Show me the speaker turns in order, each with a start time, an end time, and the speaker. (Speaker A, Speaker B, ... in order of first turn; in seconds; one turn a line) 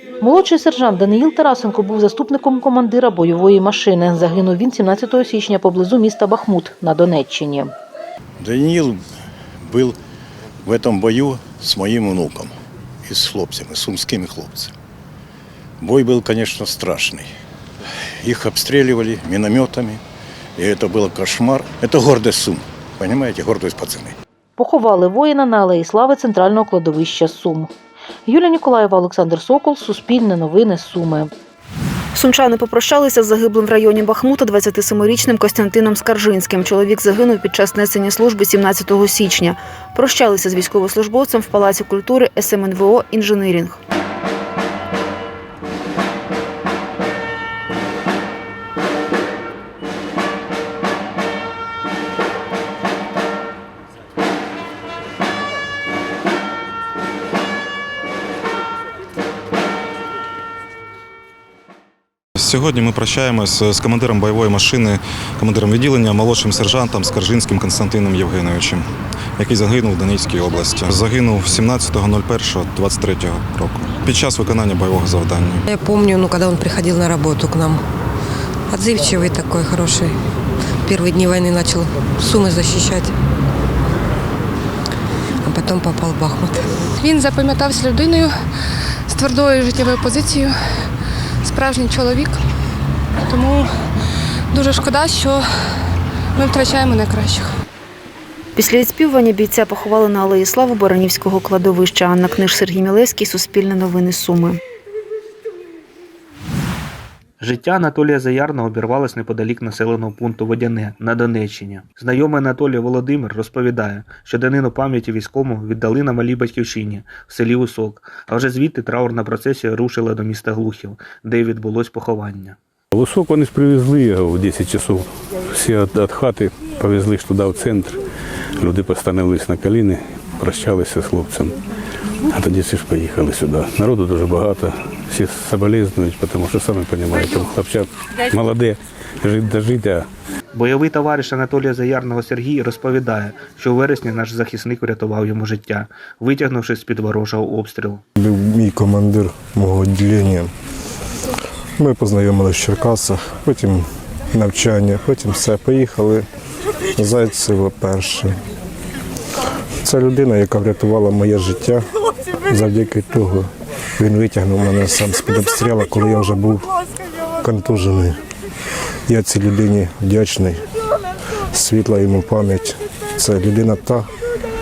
Speaker A: 0.2-7.7
Speaker B: 8.4-9.0
Speaker B: 9.6-10.0
Speaker B: 10.7-12.6
Speaker B: 13.1-14.7
Speaker B: 15.8-17.3
Speaker B: 18.2-20.0
Speaker B: 20.6-24.1
Speaker A: 24.6-27.7
Speaker A: 28.3-31.3
Speaker C: 32.1-43.8
Speaker D: 62.4-68.8
Speaker D: 69.4-75.6
Speaker E: 75.7-77.8
Speaker E: 78.7-80.2
Speaker E: 80.8-83.2
Speaker E: 85.4-86.7
Speaker F: 87.0-88.3
Speaker F: 89.1-90.5
Speaker F: 91.5-92.3
Speaker F: 93.3-93.7
Speaker F: 94.5-95.4
Speaker F: 96.4-97.5
Speaker C: 98.6-104.6
Speaker G: 107.4-122.6
Speaker H: 123.0-125.0
Speaker H: 125.6-128.0
Speaker H: 128.6-131.5
Speaker H: 132.3-140.0
Speaker G: 140.5-148.0
Speaker I: 148.2-150.5
Speaker I: 151.8-153.8
Speaker I: 154.3-156.2
Speaker I: 157.0-158.3
Speaker I: 159.8-161.8
Speaker I: 162.5-163.4
Speaker I: 164.0-166.6
Speaker I: 167.4-168.1
Speaker I: 169.1-170.6
Speaker I: 171.6-174.0